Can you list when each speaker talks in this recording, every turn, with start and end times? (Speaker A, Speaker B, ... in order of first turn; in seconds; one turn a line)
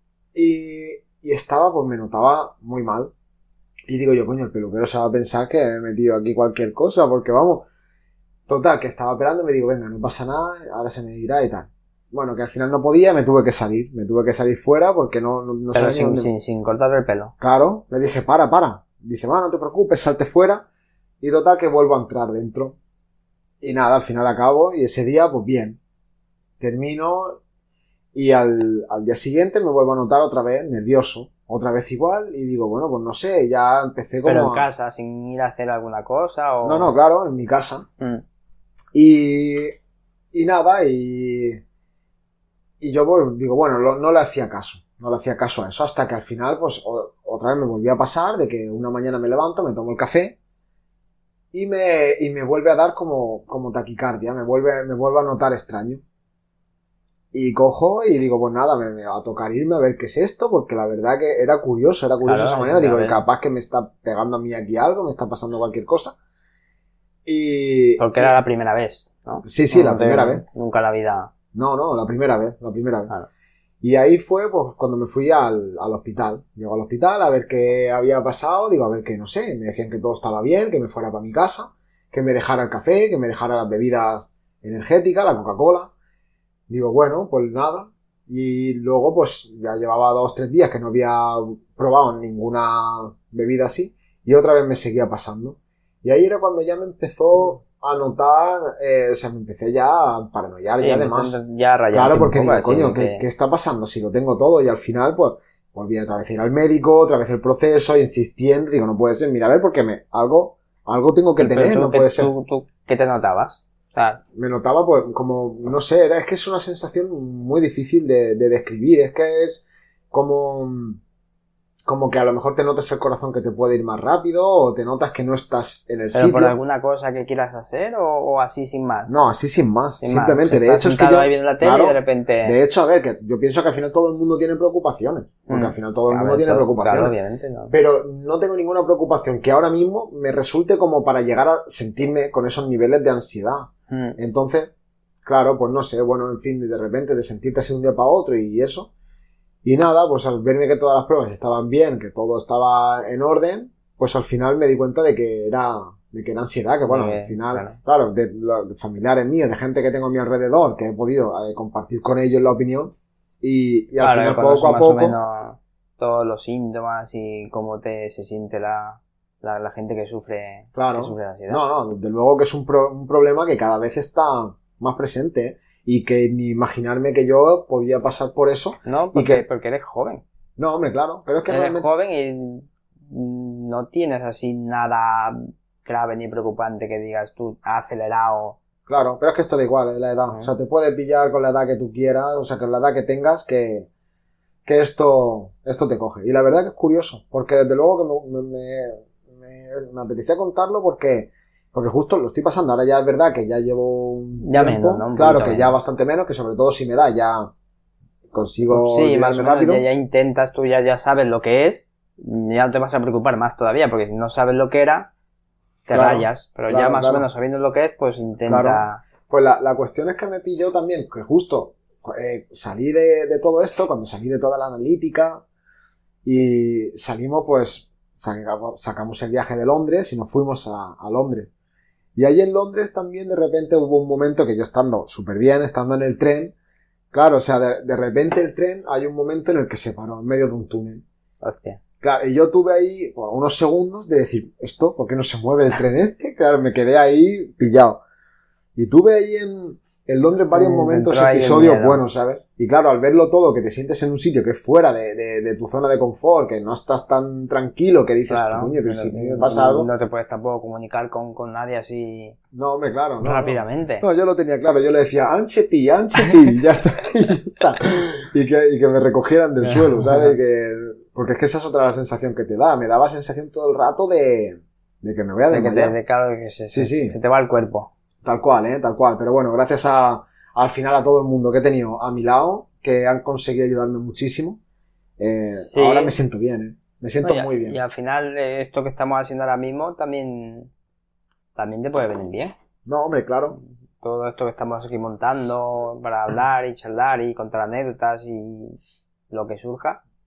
Speaker A: 0.3-3.1
Speaker A: 3.9-7.7
Speaker A: 8.5-16.3
Speaker B: 15.7-17.3
Speaker A: 17.4-20.7
Speaker A: 21.2-22.8
Speaker A: 23.6-25.8
Speaker A: 26.6-27.4
Speaker A: 28.1-34.7
Speaker B: 34.2-36.9
Speaker A: 36.6-37.9
Speaker A: 38.9-39.8
Speaker A: 40.3-41.6
Speaker A: 42.8-50.4
Speaker A: 51.5-56.0
Speaker A: 57.3-66.2
Speaker B: 62.2-63.2
Speaker A: 67.3-68.4
Speaker B: 68.0-71.3
Speaker A: 69.4-70.4
Speaker A: 71.5-73.1
Speaker A: 73.8-85.9
Speaker A: 86.7-101.4
Speaker B: 100.8-103.2
Speaker A: 101.9-112.3
Speaker B: 111.4-114.2
Speaker A: 114.3-121.0
Speaker A: 121.8-126.6
Speaker B: 126.1-129.1
Speaker A: 129.1-137.2
Speaker B: 130.0-132.6
Speaker B: 135.5-137.7
Speaker A: 137.7-144.7
Speaker B: 143.9-144.2
Speaker A: 145.2-148.9
Speaker A: 149.6-165.2
Speaker B: 156.9-157.8
Speaker B: 164.0-171.6
Speaker A: 170.8-179.4
Speaker B: 178.8-180.2
Speaker A: 180.6-181.9
Speaker B: 181.5-188.6
Speaker A: 188.9-193.9
Speaker A: 194.7-207.5
Speaker B: 204.4-205.8
Speaker A: 208.3-209.8
Speaker B: 208.7-215.1
Speaker B: 215.9-219.0
Speaker A: 215.9-217.3
Speaker A: 218.5-225.4
Speaker A: 226.2-231.5
Speaker A: 232.2-236.5
Speaker A: 237.1-241.0
Speaker B: 241.4-241.8
Speaker A: 242.0-248.0
Speaker A: 248.8-259.9
Speaker B: 250.5-252.0
Speaker B: 258.3-262.4
Speaker A: 262.5-275.9
Speaker B: 263.2-264.1
Speaker B: 269.6-270.4
Speaker B: 275.5-277.9
Speaker A: 276.7-277.2
Speaker A: 278.2-284.6
Speaker A: 285.2-287.8
Speaker B: 285.6-286.2
Speaker B: 287.2-290.7
Speaker B: 291.6-292.5
Speaker A: 292.9-293.6
Speaker B: 293.5-298.8
Speaker B: 299.3-300.0